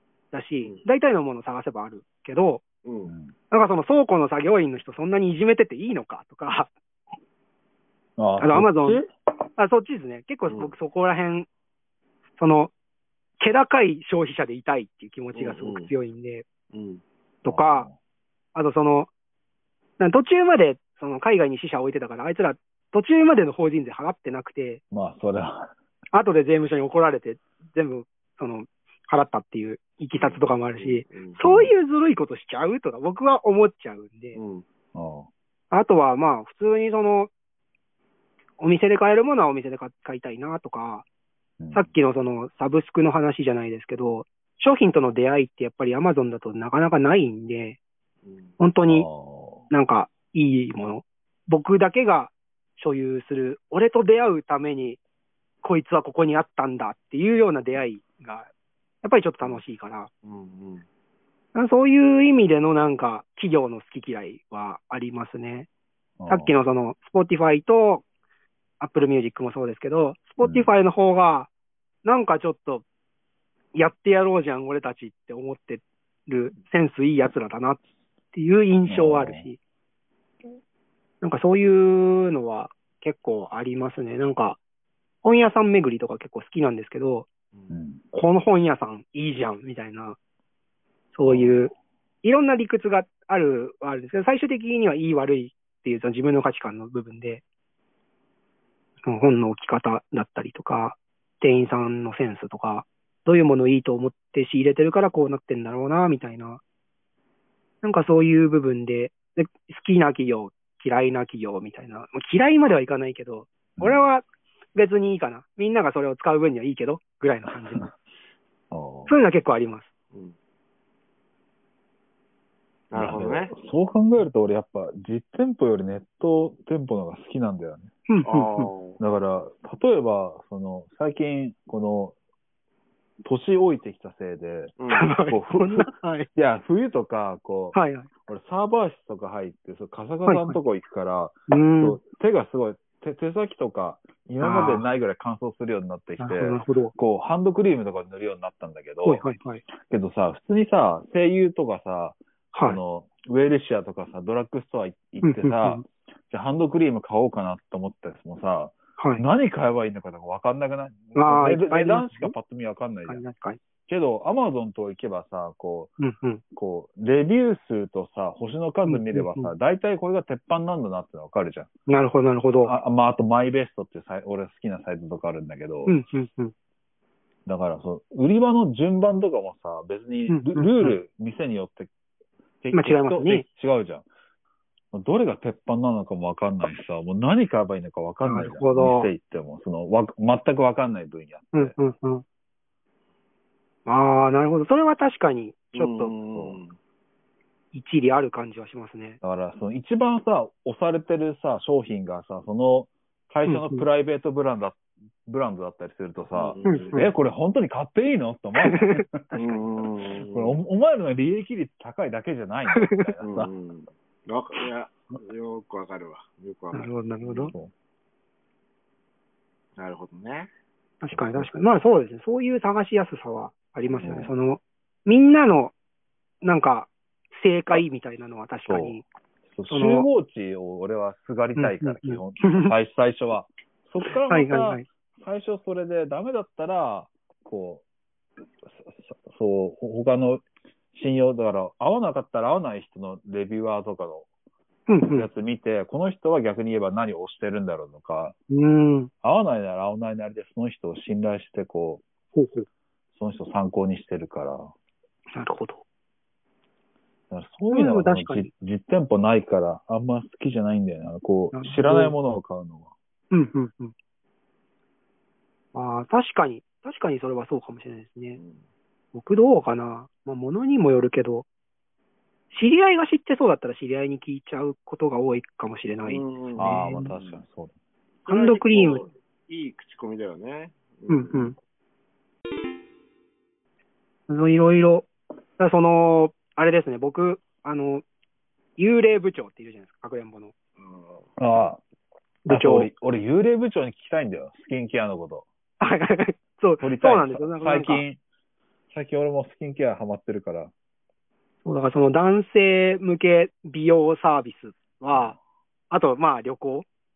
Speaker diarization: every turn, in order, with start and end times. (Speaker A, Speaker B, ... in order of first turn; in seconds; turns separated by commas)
Speaker A: 0.3-2.6, Speaker B: 2.8-3.1, Speaker C: 3.0-3.3, Speaker A: 3.5-6.7, Speaker C: 8.2-9.1, Speaker A: 8.4-9.0, Speaker A: 9.6-11.5, Speaker B: 10.5-10.7, Speaker A: 12.4-12.7, Speaker A: 13.4-16.4, Speaker B: 15.3-15.9, Speaker B: 16.7-17.0, Speaker A: 17.4-17.9, Speaker C: 17.4-17.9, Speaker A: 18.5-19.1, Speaker A: 20.0-24.8, Speaker C: 24.9-25.7, Speaker A: 26.1-34.4, Speaker B: 30.2-31.4, Speaker C: 31.4-31.7, Speaker B: 34.3-34.6, Speaker C: 34.9-35.3, Speaker A: 35.7-37.3, Speaker A: 38.6-41.0, Speaker C: 41.6-41.9, Speaker A: 41.7-47.8, Speaker B: 48.2-48.6, Speaker A: 48.6-49.1, Speaker C: 48.9-49.7, Speaker A: 49.7-55.0, Speaker A: 55.6-58.5, Speaker A: 59.0-60.1, Speaker B: 60.2-60.8, Speaker A: 61.5-65.7, Speaker C: 66.2-66.5, Speaker A: 66.3-68.0, Speaker A: 68.8-71.5, Speaker C: 70.4-70.7, Speaker A: 72.0-72.8, Speaker A: 73.7-77.8, Speaker A: 78.3-79.6, Speaker C: 78.9-79.5, Speaker A: 81.2-84.6, Speaker A: 85.2-87.3, Speaker C: 87.7-88.1, Speaker A: 88.1-90.2, Speaker A: 91.1-97.4, Speaker C: 91.2-91.7, Speaker A: 99.0-106.6, Speaker A: 107.8-117.9, Speaker C: 113.8-114.0, Speaker C: 118.7-119.1, Speaker A: 119.1-119.9, Speaker B: 122.9-123.5, Speaker C: 122.9-127.9, Speaker A: 128.1-128.7, Speaker B: 128.2-129.0, Speaker C: 129.0-132.1, Speaker C: 133.2-134.8, Speaker B: 134.8-135.1, Speaker A: 134.9-136.3, Speaker C: 135.3-163.2, Speaker A: 137.7-138.1, Speaker A: 140.2-140.6, Speaker A: 141.5-142.0, Speaker A: 144.4-144.8, Speaker A: 146.2-146.9, Speaker A: 149.0-149.6, Speaker A: 152.5-152.8, Speaker A: 155.2-155.8, Speaker A: 159.0-159.2, Speaker A: 161.1-162.3, Speaker A: 163.1-163.6, Speaker C: 163.9-165.9, Speaker A: 166.0-166.4, Speaker C: 166.5-171.7, Speaker A: 168.8-169.5, Speaker A: 171.9-172.7, Speaker C: 172.6-176.0, Speaker A: 175.8-176.5, Speaker C: 177.4-181.9, Speaker A: 180.3-180.9, Speaker C: 182.6-184.1, Speaker A: 182.7-183.4, Speaker C: 184.9-191.8, Speaker A: 188.2-189.1, Speaker A: 191.5-192.2, Speaker A: 193.8-196.1, Speaker B: 195.7-196.8, Speaker C: 196.3-196.6, Speaker A: 197.7-199.2, Speaker C: 199.2-209.4, Speaker A: 203.4-203.8, Speaker B: 206.3-207.1, Speaker A: 206.6-207.1, Speaker A: 208.6-209.0, Speaker B: 209.3-210.5, Speaker C: 210.2-213.5, Speaker A: 212.7-213.1, Speaker B: 213.2-216.9, Speaker A: 216.7-217.5, Speaker C: 217.4-217.7, Speaker B: 219.8-220.5, Speaker A: 221.0-225.7, Speaker C: 221.1-221.5, Speaker C: 224.0-224.3, Speaker A: 226.4-229.0, Speaker C: 228.7-229.0, Speaker C: 229.5-237.8, Speaker A: 229.7-230.1, Speaker A: 231.6-232.7, Speaker A: 234.3-234.8, Speaker C: 238.6-244.3, Speaker A: 244.9-245.3, Speaker C: 245.1-248.3, Speaker A: 248.5-249.1, Speaker C: 249.2-252.0, Speaker A: 252.3-252.7, Speaker C: 253.1-254.7, Speaker A: 255.3-255.8, Speaker C: 257.3-262.9, Speaker A: 257.7-258.5, Speaker A: 261.5-262.1, Speaker A: 263.3-263.9, Speaker A: 265.7-268.4, Speaker A: 269.1-271.4, Speaker A: 272.5-277.1, Speaker B: 276.1-277.4, Speaker C: 276.6-277.7, Speaker B: 278.2-281.4, Speaker A: 278.3-279.0, Speaker A: 281.1-281.6, Speaker A: 284.3-288.0, Speaker A: 288.8-290.5, Speaker B: 290.8-291.3, Speaker C: 291.4-291.8, Speaker A: 292.4-292.9, Speaker C: 292.5-295.5, Speaker A: 295.8-298.0, Speaker C: 296.8-298.2, Speaker C: 298.9-300.7, Speaker A: 301.6-305.4, Speaker C: 305.1-305.4, Speaker A: 305.9-306.9